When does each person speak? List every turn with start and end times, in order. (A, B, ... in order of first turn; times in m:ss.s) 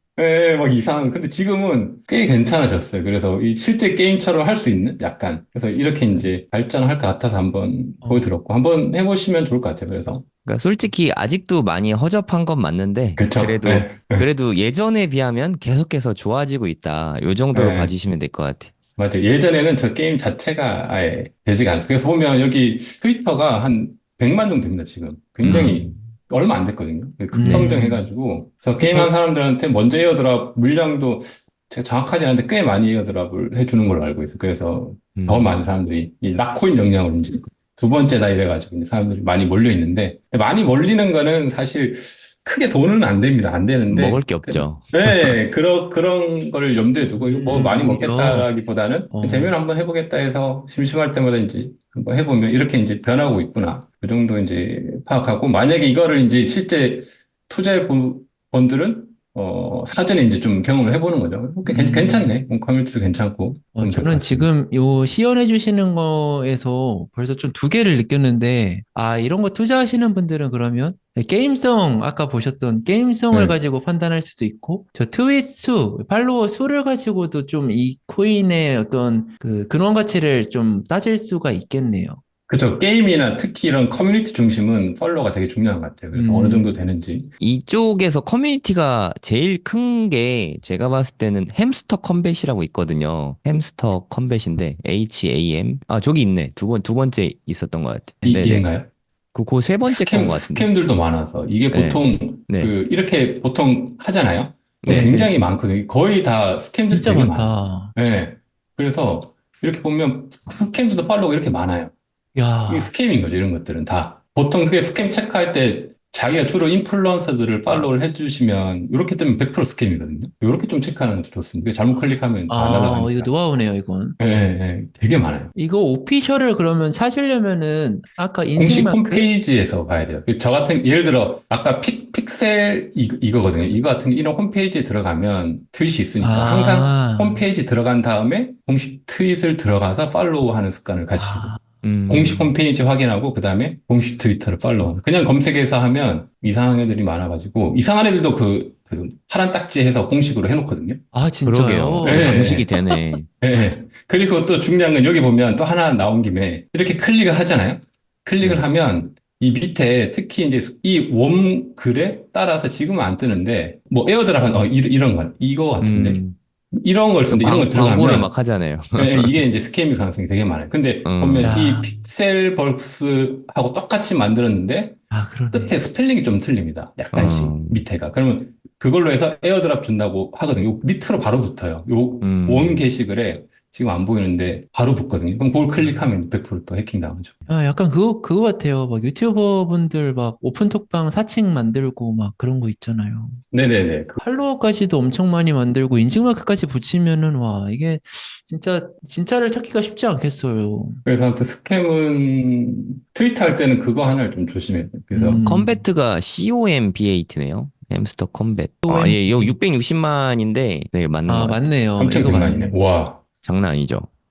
0:00.2-0:10.2 A
0:08.0-0:08.3 B
0:10.4-0:18.7 C
0:13.2-0:14.3 A
0:17.5-0:17.9 A
0:19.0-1:04.5 A
0:25.4-0:26.0 C
0:25.5-0:25.8 B
0:27.3-0:28.1 B
0:28.8-0:29.1 B
0:35.2-0:35.6 C
0:43.9-0:45.4 C
0:47.2-0:48.5 B
0:49.1-0:49.6 B
1:01.6-1:02.3 B
1:03.8-1:22.2 B
1:13.3-1:13.6 A
1:22.5-1:27.3 A
1:26.1-1:26.7 B
1:27.4-1:38.6 C
1:38.2-1:38.9 A
1:39.3-1:40.7 C
1:39.8-1:51.9 A
1:41.7-1:42.7 C
1:44.8-1:45.3 C
1:44.9-1:45.3 B
1:46.9-1:47.9 B
1:52.4-1:52.9 B
1:52.7-2:03.3 A
2:02.5-2:04.2 B
2:04.2-2:05.5 A
2:05.6-2:09.3 B
2:08.6-2:31.0 A
2:16.2-2:17.4 B
2:21.1-2:21.6 B
2:21.8-2:22.5 C
2:31.1-2:32.7 B
2:31.4-2:33.3 C
2:32.0-2:32.7 A
2:33.4-2:46.2 A
2:45.8-2:46.4 C
2:46.7-2:48.3 A
2:47.2-2:49.4 C
2:49.0-3:07.4 A
2:51.0-2:51.6 C
2:51.4-2:52.0 B
2:55.1-2:55.8 B
2:57.1-2:57.8 C
3:02.2-3:02.8 C
3:07.5-3:13.4 B
3:13.5-3:14.2 A
3:14.2-3:21.0 B
3:21.0-3:25.4 A
3:25.1-3:25.8 B
3:25.4-3:31.7 C
3:28.8-3:29.6 B
3:31.3-3:32.8 B
3:32.0-3:33.2 A
3:33.4-3:34.1 C